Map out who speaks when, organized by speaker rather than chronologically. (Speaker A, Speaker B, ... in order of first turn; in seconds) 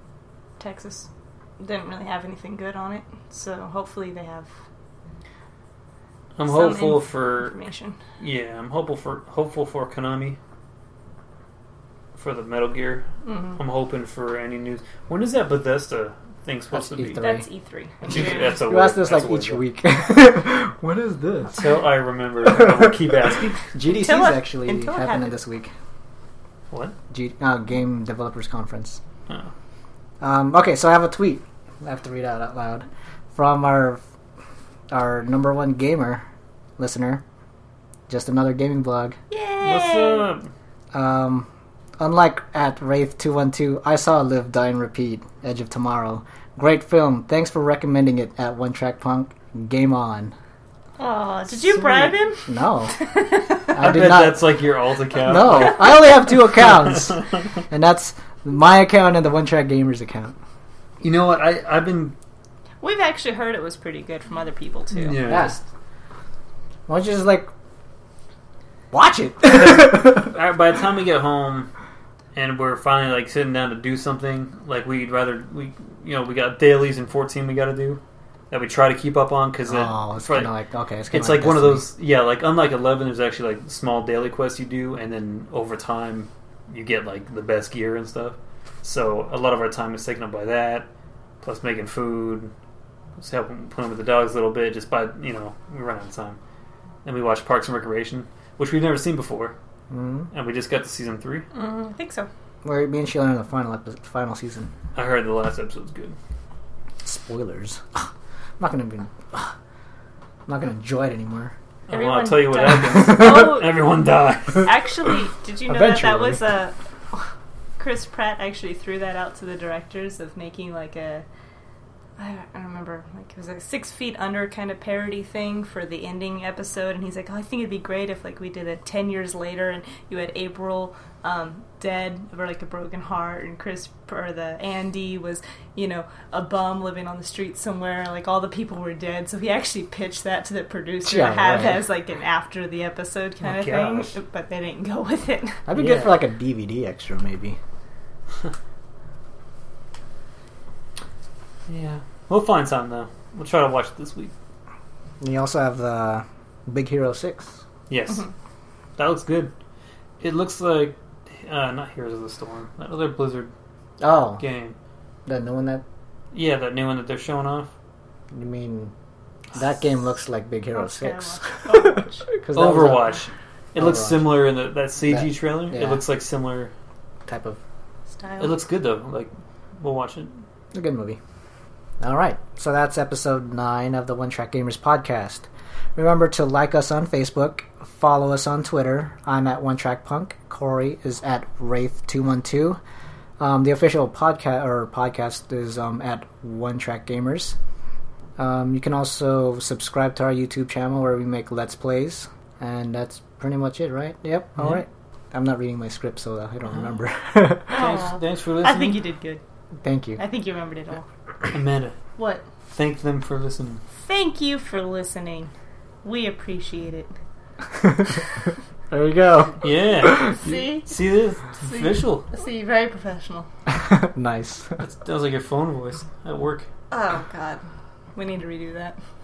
Speaker A: 0.6-4.5, 6.5-8.0, 13.2-13.6, 17.2-18.6, 23.9-25.4, 39.3-40.3, 51.0-53.7, 62.8-65.4, 101.5-102.3, 111.9-113.9, 114.6-117.3, 117.8-121.2, 122.2-145.7, 170.8-172.3, 178.2-178.6, 207.7-209.4, 210.2-211.1, 212.2-212.4, 214.1-215.5, 216.0-217.1, 220.2-220.9, 221.6-223.5, 226.9-227.6, 228.2-229.0
Speaker B: 6.4-7.6, 8.2-10.4, 12.2-13.1, 13.6-17.3, 18.1-19.6, 21.5-23.7, 39.6-40.5, 51.6-52.1, 53.8-57.2, 61.0-62.2, 65.0-65.6, 69.5-71.7, 72.3-80.5, 81.1-90.9, 91.4-92.5, 93.2-96.4, 97.0-99.5, 100.3-101.5, 105.0-106.2, 111.9-114.8, 143.4-144.2, 145.8-146.2, 151.7-154.3, 157.9-158.3, 159.0-159.5, 160.2-163.5, 164.4-164.8, 166.3-167.7, 172.5-176.7, 178.4-180.4, 204.6-204.8, 207.7-209.0, 211.5-212.0, 212.7-213.8, 219.6-222.3, 224.8-226.7
Speaker C: 16.7-17.5, 18.6-21.6, 22.4-23.0, 23.7-25.7, 27.1-29.0, 30.2-34.0, 34.9-36.2, 36.8-37.2, 38.1-39.2, 40.9-41.5, 42.0-50.3, 52.5-52.9, 53.7-54.5, 55.2-60.4, 65.2-65.5, 66.9-67.5, 68.9-70.3, 79.7-81.8, 99.9-100.3, 102.6-104.7, 107.0-108.1, 108.6-109.5, 110.5-111.5, 115.7-116.4, 141.0-141.8, 145.7-147.6, 155.2-157.6, 164.0-164.4, 165.3-165.8, 168.3-168.9, 169.5-173.2, 173.8-174.4, 175.1-176.0, 177.3-177.6, 180.7-181.2, 182.0-192.8, 193.4-197.6, 198.4-207.8, 209.8-210.2, 218.9-219.6, 223.7-224.8